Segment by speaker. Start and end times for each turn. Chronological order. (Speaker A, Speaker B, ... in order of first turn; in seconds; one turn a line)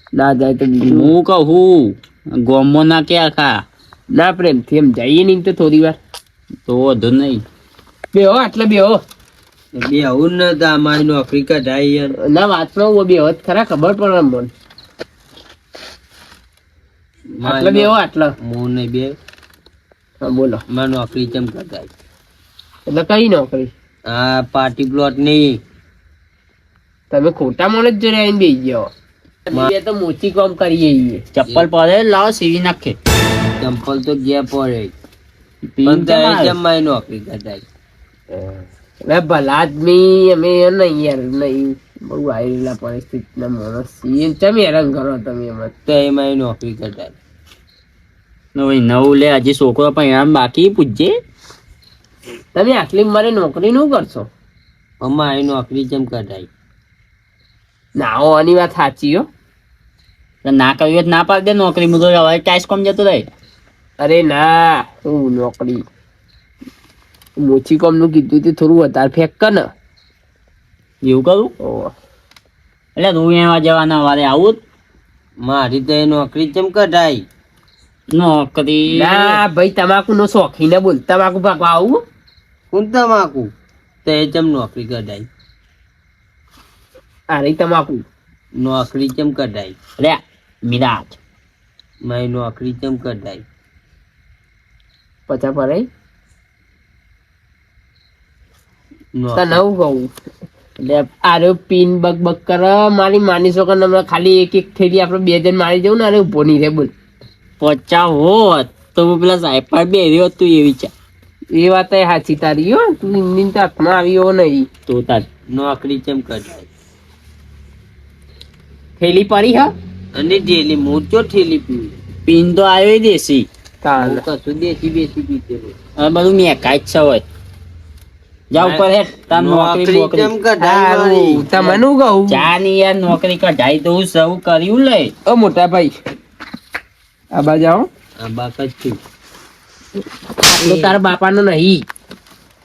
Speaker A: 0.2-1.1
Speaker B: 0.8-3.6
Speaker A: 4.1-6.0
Speaker B: 6.7-7.4
Speaker A: 8.1-9.0
Speaker C: 9.7-12.2
Speaker A: 12.2-14.5
Speaker C: 17.4-19.2
Speaker A: 17.4-18.3
Speaker A: 20.2-20.6
Speaker C: 20.7-21.9
Speaker A: 22.9-23.7
Speaker C: 24.1-25.6
Speaker A: 27.1-28.9
Speaker A: 29.5-31.2
Speaker B: 31.3-33.0
Speaker C: 33.6-34.9
Speaker B: 35.7-36.5
Speaker C: 35.9-37.6
Speaker A: 39.0-45.7
Speaker C: 45.9-47.1
Speaker B: 48.5-51.2
Speaker A: 52.5-54.3
Speaker C: 55.0-56.5
Speaker A: 58.0-59.3
Speaker B: 60.4-63.3
Speaker A: 64.0-65.8
Speaker A: 67.4-69.7
Speaker B: 71.0-71.5
Speaker A: 71.6-71.9
Speaker B: 73.0-74.6
Speaker C: 75.4-77.2
Speaker B: 78.1-79.4
Speaker A: 78.9-82.0
Speaker C: 82.7-83.5
Speaker C: 84.0-85.3
Speaker A: 87.3-88.0
Speaker C: 88.6-89.8
Speaker B: 90.0-91.2
Speaker C: 92.0-93.4
Speaker A: 95.3-95.9
Speaker C: 99.2-99.6
Speaker A: 99.3-100.1
Speaker B: 100.8-101.1
Speaker A: 101.2-106.9
Speaker B: 107.6-110.9
Speaker A: 111.5-114.7
Speaker B: 114.9-115.3
Speaker C: 115.5-116.7
Speaker A: 119.0-119.7
Speaker C: 120.1-122.0
Speaker B: 122.3-123.5
Speaker A: 123.8-124.2
Speaker C: 124.0-125.8
Speaker B: 126.0-127.2
Speaker B: 128.5-130.3
Speaker C: 128.6-131.8
Speaker A: 130.6-132.5
Speaker B: 132.3-135.1
Speaker A: 135.3-135.9
Speaker A: 137.3-137.9
Speaker C: 138.2-139.0
Speaker A: 140.4-141.8